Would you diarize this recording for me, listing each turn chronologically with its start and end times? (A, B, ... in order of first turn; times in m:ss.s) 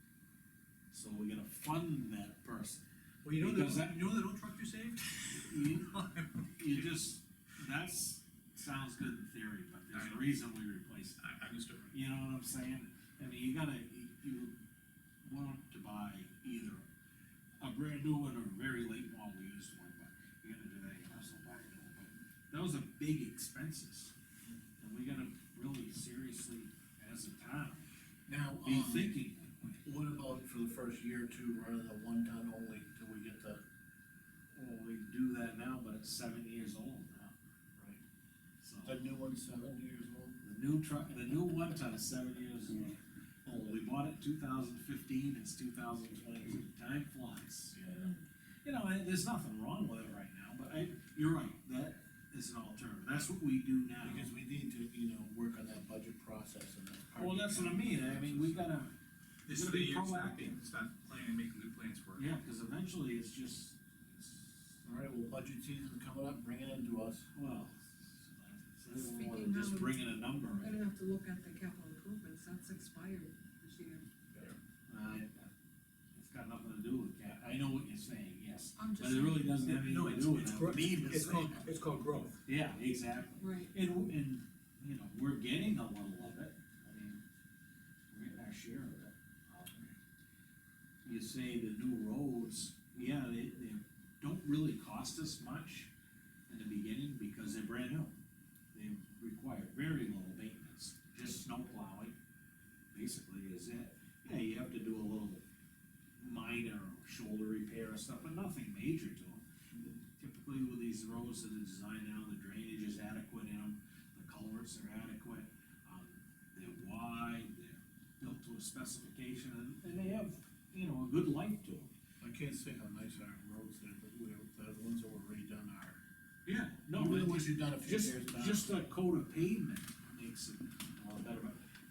0:00.9-0:04.2 A
0:03.2-0:06.3 B
0:05.3-0:11.2 A
0:09.9-0:10.2 B
0:11.2-0:11.9 B
0:11.9-0:14.6 A
0:15.2-0:16.8 A
0:17.6-0:24.1 A
0:24.8-0:27.9 A
0:28.3-0:29.2 C
0:28.6-0:29.8 A
0:29.8-0:33.6 C
0:34.5-0:37.3 A
0:38.6-0:39.0 A
0:38.8-0:40.4 C
0:40.4-0:47.8 A
0:47.7-0:48.2 C
0:48.6-0:54.3 A
0:54.0-0:58.7 C
0:57.2-0:59.0 A
0:59.5-1:02.3 B
0:59.5-1:00.6 A
1:02.2-1:04.8 A
1:04.8-1:07.3 C
1:07.3-1:10.8 A
1:09.0-1:14.1 D
1:14.9-1:15.5 A
1:16.2-1:21.7 A
1:18.8-1:19.7 D
1:19.6-1:22.4 B
1:22.5-1:27.2 A
1:23.4-1:23.7 D
1:28.1-1:29.9 A
1:31.0-1:35.9 A
1:36.5-1:38.1 A
1:38.7-1:42.2 A
1:42.9-1:45.4 A
1:46.2-2:01.9 A
2:02.2-2:06.0 C
2:06.5-2:11.6 A
2:06.9-2:08.7 C